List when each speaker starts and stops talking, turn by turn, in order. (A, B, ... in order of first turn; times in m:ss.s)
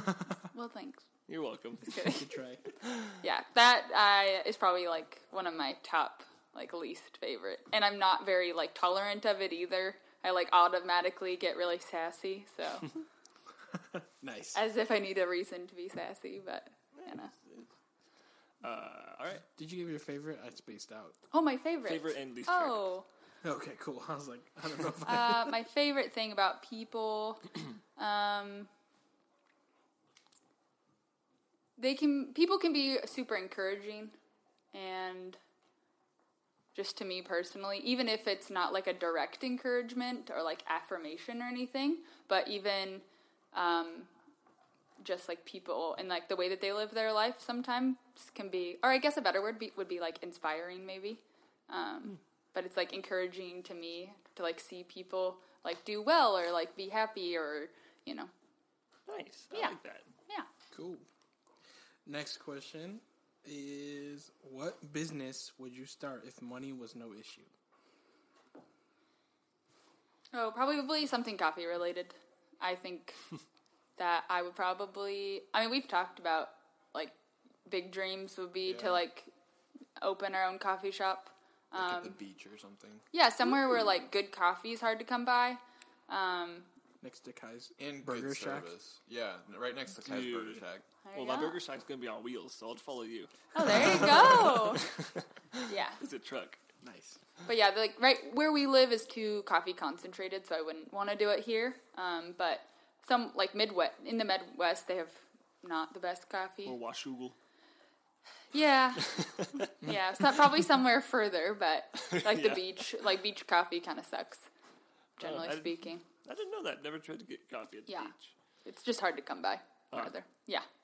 0:00.5-0:01.0 A
0:01.3-0:02.0 B
0:01.8-0:02.3 A
0:02.0-0:02.7 C
0:02.8-0:03.1 B
0:03.2-0:13.0 A
0:13.9-0:14.6 C
0:14.5-0:17.3 A
0:17.0-0:17.7 B
0:18.6-0:19.4 B
0:19.6-0:21.2 C
0:21.3-0:23.0 A
0:21.8-0:22.8 B
0:23.4-0:25.5 C
0:25.0-0:28.7 A
0:31.8-0:34.1 A
0:34.7-0:35.4 A
0:36.7-0:44.1 A
0:45.0-0:58.3 A
0:59.1-1:00.0 B
1:00.7-1:01.0 C
1:02.0-1:07.5 C
1:10.3-1:13.2 A
1:14.0-1:17.1 A
1:17.6-1:19.3 A
1:18.6-1:19.0 D
1:20.0-1:22.2 A
1:21.7-1:23.0 D
1:23.1-1:26.7 A
1:27.0-1:28.7 C
1:27.8-1:30.8 D
1:30.0-1:36.6 B
1:31.0-1:31.6 A
1:33.5-1:34.8 A
1:35.6-1:36.0 A
1:36.8-1:37.2 C
1:37.4-1:46.8 A
1:46.6-1:47.3 B
1:48.5-1:54.5 A
1:49.0-1:49.7 B
1:52.0-1:52.8 B
1:55.2-1:56.0 A
1:55.2-1:58.3 B
1:57.9-1:58.1 A
1:58.6-2:00.6 A